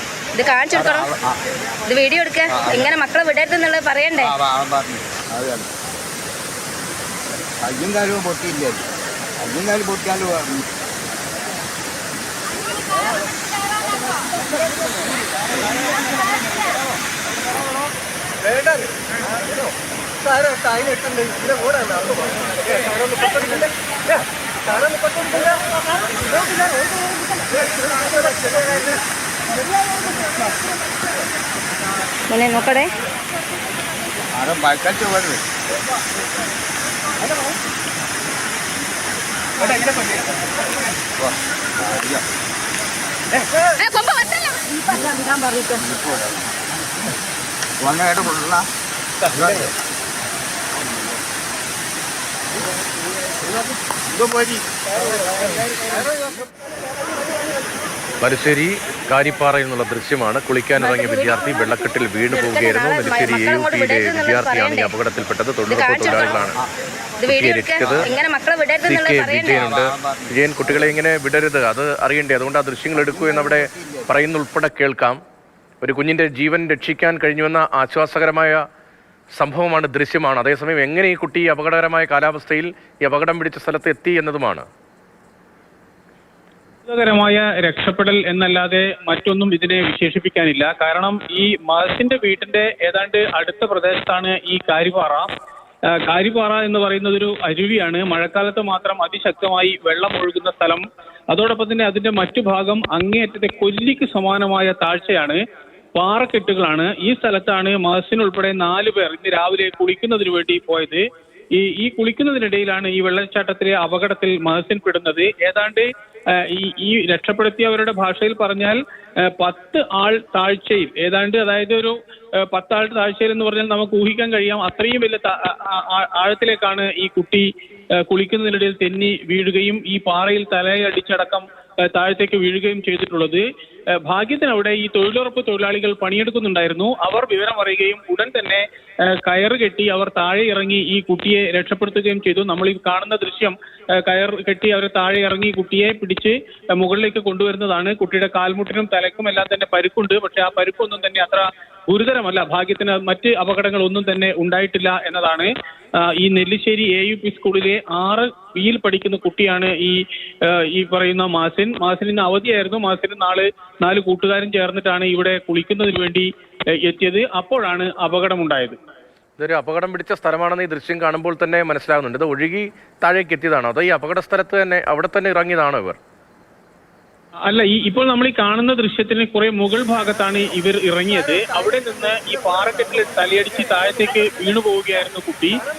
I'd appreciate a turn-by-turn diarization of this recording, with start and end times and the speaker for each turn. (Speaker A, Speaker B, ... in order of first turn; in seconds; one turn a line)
Speaker A: 0.3-1.1
Speaker B: 0.7-1.4
Speaker A: 1.9-4.3
Speaker B: 2.5-3.0
Speaker B: 4.2-5.7
Speaker B: 7.7-8.9
Speaker B: 9.4-10.7
Speaker A: 32.3-32.9
Speaker B: 34.4-35.5
Speaker B: 41.2-42.2
Speaker A: 43.8-44.6
Speaker B: 45.7-46.7
Speaker B: 47.8-48.7
Speaker B: 49.3-49.7
Speaker B: 50.8-51.2
Speaker B: 54.1-54.6
Speaker C: 58.2-66.6
Speaker A: 60.8-64.9
Speaker A: 65.7-66.4
Speaker B: 66.1-66.7
Speaker A: 67.2-69.7
Speaker C: 67.3-68.1
Speaker B: 67.8-68.1
Speaker C: 68.9-75.2
Speaker B: 69.5-70.9
Speaker B: 72.9-74.1
Speaker C: 75.8-78.6
Speaker C: 79.4-84.7
Speaker D: 86.9-95.3
Speaker D: 96.0-105.4
Speaker D: 106.0-111.0
Speaker D: 111.6-122.0
Speaker D: 122.5-127.5
Speaker D: 128.0-133.4
Speaker D: 134.0-155.5
Speaker D: 156.0-166.3
Speaker D: 166.8-168.8
Speaker C: 169.4-176.0
Speaker D: 177.5-185.6